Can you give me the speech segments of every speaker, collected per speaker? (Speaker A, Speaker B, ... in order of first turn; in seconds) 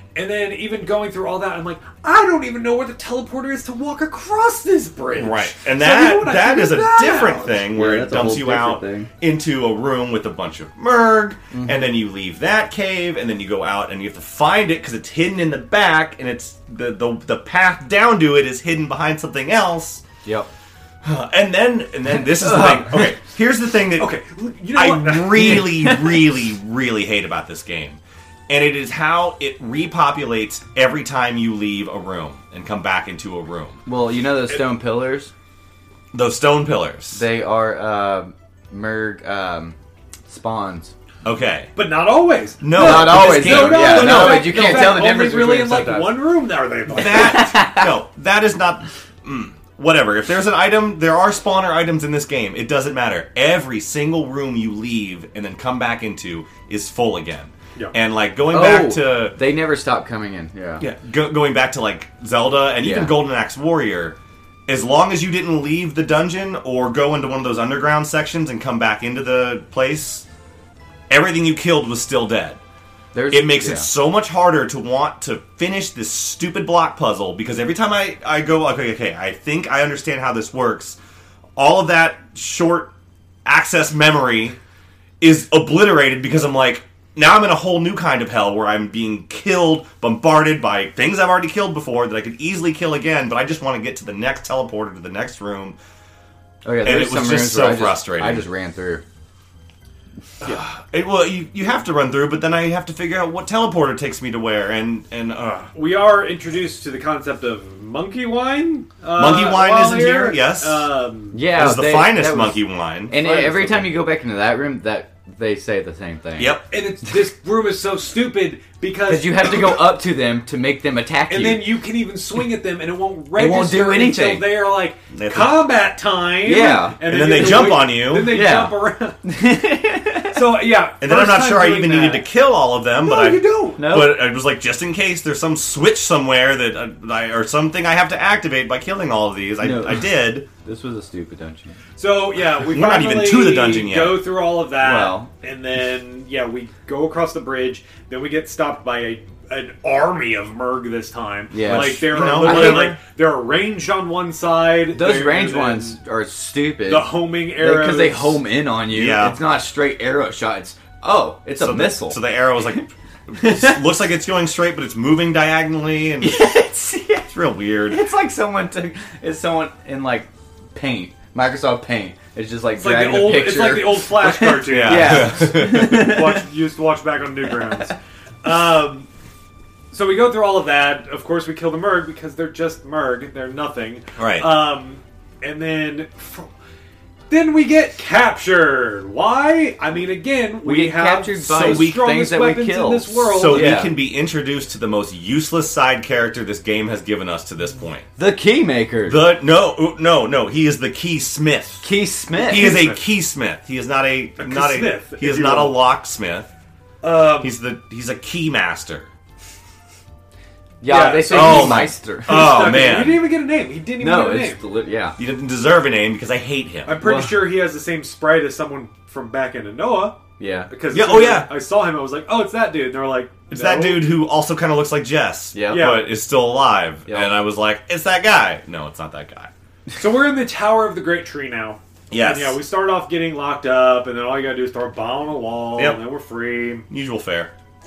Speaker A: 0.1-7.6, 24.0-25.8, 41.8-47.5, 105.7-111.4, 113.2-113.9, 116.7-119.8, 121.3-129.2, 130.3-132.2, 133.0-133.9, 142.0-156.0, 156.8-158.4, 172.8-179.1, 179.9-186.5, 187.3-193.9, 202.4-203.0, 204.4-205.8, 207.0-207.5, 210.8-214.6, 216.8-224.1, 225.7-226.1, 229.9-236.9
Speaker B: 5.2-20.0, 21.0-24.1, 24.7-33.8, 36.1-37.2, 41.2-41.7, 42.6-44.9, 46.9-59.4, 60.8-70.2, 71.1-72.6, 73.3-81.0, 81.5-82.9, 83.4-84.6, 85.2-95.8, 96.8-98.5, 100.4-105.7, 109.1-110.9, 111.5-113.2, 116.4-116.7, 125.1-125.6, 127.0-128.4, 131.0-140.5, 142.7-144.2, 151.6-153.0, 158.9-159.4, 161.6-166.5, 167.3-168.0, 174.7-176.1, 184.2-184.5, 191.5-192.1, 193.3-198.1, 199.1-206.5, 207.4-209.1, 211.2-213.2, 215.2-217.0, 220.9-221.5, 223.5-229.5, 232.1-232.6, 236.9-237.5
Speaker C: 7.7-9.1, 11.5-11.8, 22.1-23.1, 25.4-26.2, 33.9-35.3, 37.1-39.8, 40.3-40.9, 42.7-46.2, 47.0-48.0, 58.5-60.8, 62.8-63.2, 73.1-73.9, 96.6-99.0, 111.3-116.6, 119.1-121.7, 123.3-124.5, 126.4-127.0, 128.2-130.4, 133.8-134.2, 139.6-141.8, 144.8-145.3, 151.5-152.9, 154.9-162.2, 163.4-163.8, 166.2-167.3, 167.9-176.4, 190.6-193.9, 198.2-199.2, 201.8-202.8, 210.8-212.7, 214.0-215.2, 217.0-217.4, 220.4-220.7, 225.5-225.9, 227.1-227.3